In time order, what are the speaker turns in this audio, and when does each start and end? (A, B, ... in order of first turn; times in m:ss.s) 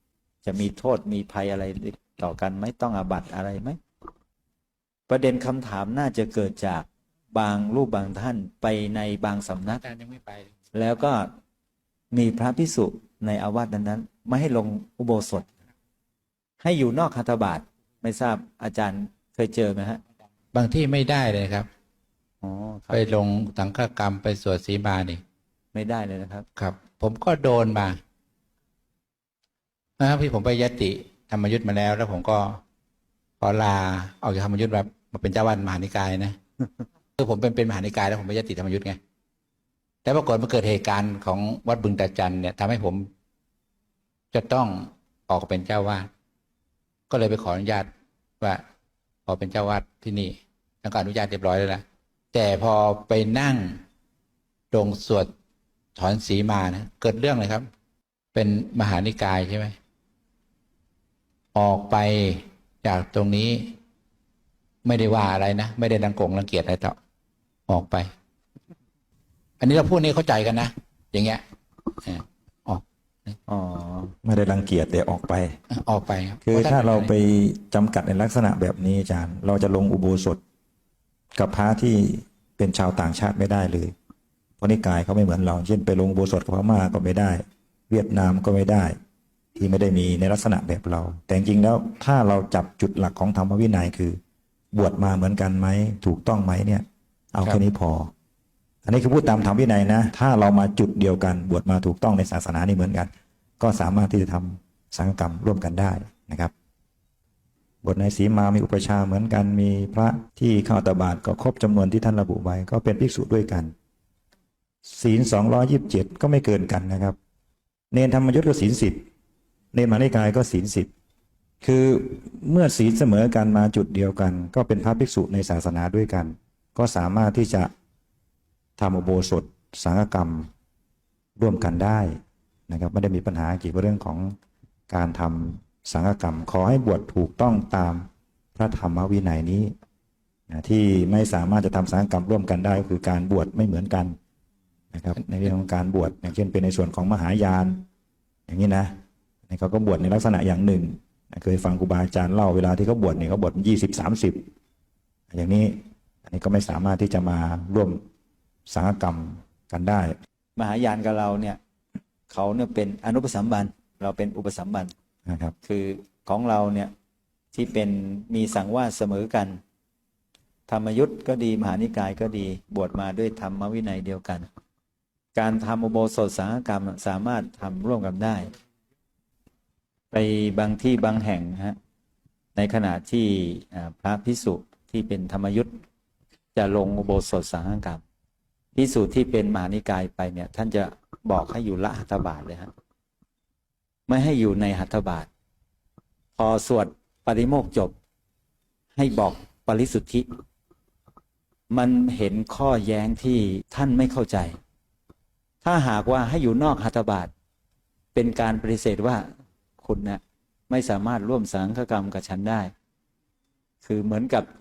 0:00.4-0:03.8 A
0:05.1-0:09.8 A
0:09.8-0:10.5 B
0:10.7-0:11.3 A
0:12.1-0:15.5 A
0:16.6-0:20.0 A
0:20.5-0:21.7 B
0:22.4-0:23.1 A
0:22.9-0:25.2 B
0:25.7-0:26.5 A
0:26.6-0:28.0 B
0:30.0-0:32.6 B
0:33.4-0:36.4 B
0:37.2-0:39.0 B
0:40.0-0:43.1 B
0:44.3-0:46.1 B
0:47.1-0:47.9 B
0:49.3-0:53.8 B
0:54.7-0:55.3 B
0:56.0-0:57.7 B
0:58.3-0:59.8 B
1:01.6-1:03.8 B
1:04.8-1:07.0 B
1:07.7-1:08.1 B
1:09.6-1:11.4 B
1:12.0-1:13.4 B
1:13.5-1:14.1 A
1:14.2-1:15.6 C
1:15.7-1:17.1 B
1:16.4-1:20.4 C
1:21.4-1:23.9 C
1:24.6-1:29.0 C
1:29.6-1:34.2 C
1:34.7-1:38.1 C
1:38.8-1:46.5 C
1:47.8-1:53.7 C
1:54.8-1:57.2 C
1:57.9-1:59.0 C
1:59.7-2:00.9 C
2:01.6-2:07.7 C
2:08.8-2:10.5 C
2:11.4-2:14.3 C
2:14.9-2:19.7 C
2:20.5-2:24.2 C
2:24.9-2:27.8 C
2:28.5-2:28.9 C
2:29.5-2:34.5 C
2:35.3-2:38.0 C
2:38.7-2:40.2 C
2:40.6-2:41.6 A
2:42.3-2:44.9 A
2:45.3-2:45.5 C
2:45.6-2:46.9 A
2:47.5-2:49.6 A
2:50.7-2:54.5 A
2:55.4-2:58.5 A
3:00.1-3:01.8 A
3:02.6-3:05.7 A
3:06.5-3:08.0 A
3:08.8-3:12.7 A
3:14.1-3:15.3 A
3:16.4-3:18.0 A
3:19.0-3:20.3 A
3:21.7-3:24.6 A
3:25.6-3:27.3 A
3:28.1-3:29.3 A
3:29.8-3:32.7 A
3:33.8-3:34.5 A